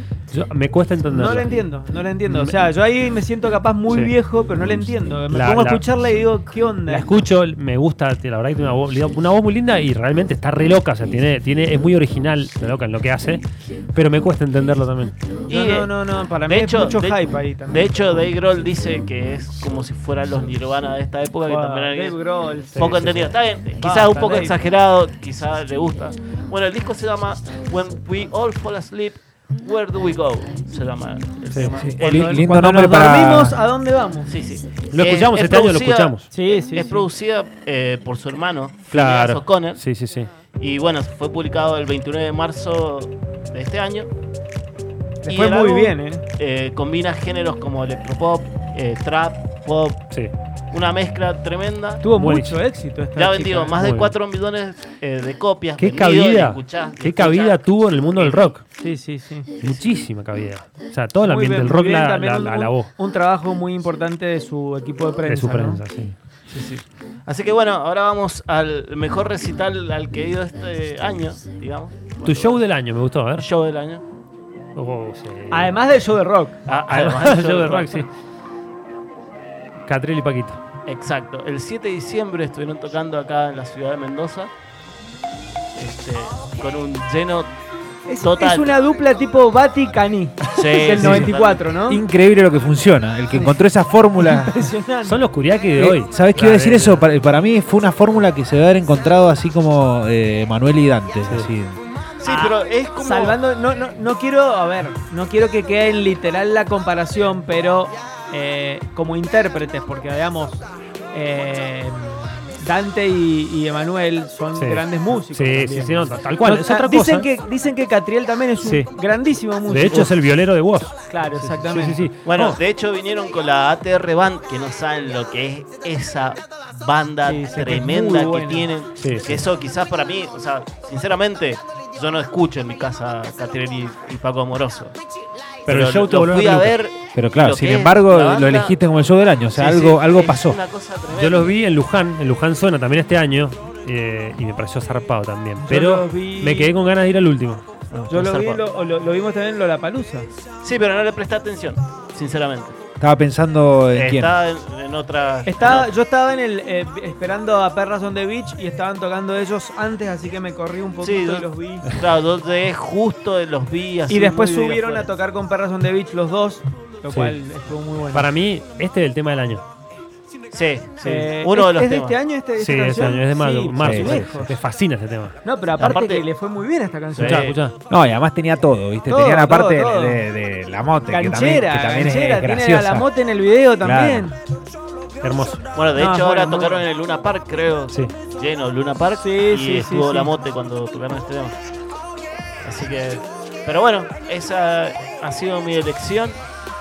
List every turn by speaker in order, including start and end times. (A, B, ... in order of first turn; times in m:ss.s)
0:00.3-0:01.5 A
0:01.1-0:07.1 B
0:02.3-0:02.5 A
0:05.3-0:05.8 A
0:06.9-0:15.2 A
0:15.5-0:18.3 B
0:15.5-0:15.9 C
0:16.5-0:17.2 C
0:17.7-0:22.2 C
0:21.5-0:22.9 B
0:22.7-0:23.4 A
0:22.8-0:32.5 C
0:23.8-0:24.6 B
0:31.5-0:31.8 A
0:31.8-0:33.6 D
0:32.0-0:34.3 B
0:34.3-0:39.8 C
0:34.9-0:36.3 A
0:36.3-0:37.0 B
0:38.9-0:40.3 A
0:40.6-0:44.1 C
0:45.3-0:46.2 B
0:45.3-0:50.1 C
0:50.7-0:52.0 C
0:52.0-0:53.8 B
0:52.1-0:52.6 A
0:53.1-0:57.6 C
0:53.8-0:54.2 A
0:55.8-0:58.6 A
0:58.2-0:58.6 C
0:58.8-0:59.5 B
0:59.6-1:00.0 C
0:59.6-1:02.9 A
1:01.2-1:05.8 B
1:05.2-1:06.2 A
1:06.5-1:12.7 C
1:12.2-1:13.5 A
1:13.4-1:14.0 C
1:14.8-1:15.7 A
1:15.5-1:16.6 B
1:16.7-1:18.1 C
1:16.9-1:18.1 A
1:19.9-1:20.6 A
1:20.9-1:24.5 C
1:25.8-1:27.5 C
1:28.1-1:32.0 B
1:28.2-1:28.8 C
1:30.5-1:31.6 C
1:31.0-1:31.4 D
1:31.9-1:34.7 D
1:34.2-1:35.2 B
1:35.0-1:37.0 A
1:35.8-1:41.8 D
1:42.2-1:43.4 C
1:42.2-2:00.1 B
1:54.6-1:57.3 A
1:58.6-1:58.9 A
1:59.7-2:02.6 A
2:01.1-2:02.1 B
2:02.2-2:15.0 C
2:07.2-2:08.7 B
2:09.0-2:09.4 A
2:15.7-2:16.8 A
2:15.7-2:18.8 C
2:17.1-2:20.6 D
2:19.5-2:21.5 C
2:21.1-2:27.6 A
2:25.6-2:26.7 B
2:27.9-2:28.6 C
2:28.1-2:30.3 B
2:30.6-2:32.8 C
2:33.0-2:34.4 D
2:33.9-2:35.9 C
2:35.5-2:41.9 B
2:41.0-2:45.1 C
2:44.1-2:48.3 B
2:47.1-2:47.4 A
2:48.1-2:49.6 A
2:50.5-2:52.2 C
2:51.0-2:54.6 B
2:52.6-2:55.4 A
2:53.8-2:54.2 D
2:55.4-2:57.5 B
2:55.8-2:56.3 C
2:57.1-2:57.6 C
2:57.2-2:57.8 A
2:57.9-3:03.1 D
2:59.1-3:00.3 B
3:01.1-3:04.4 B
3:03.8-3:04.3 D
3:05.2-3:05.6 A
3:05.7-3:11.6 C
3:05.9-3:06.9 B
3:09.2-3:10.3 B
3:12.6-3:16.4 C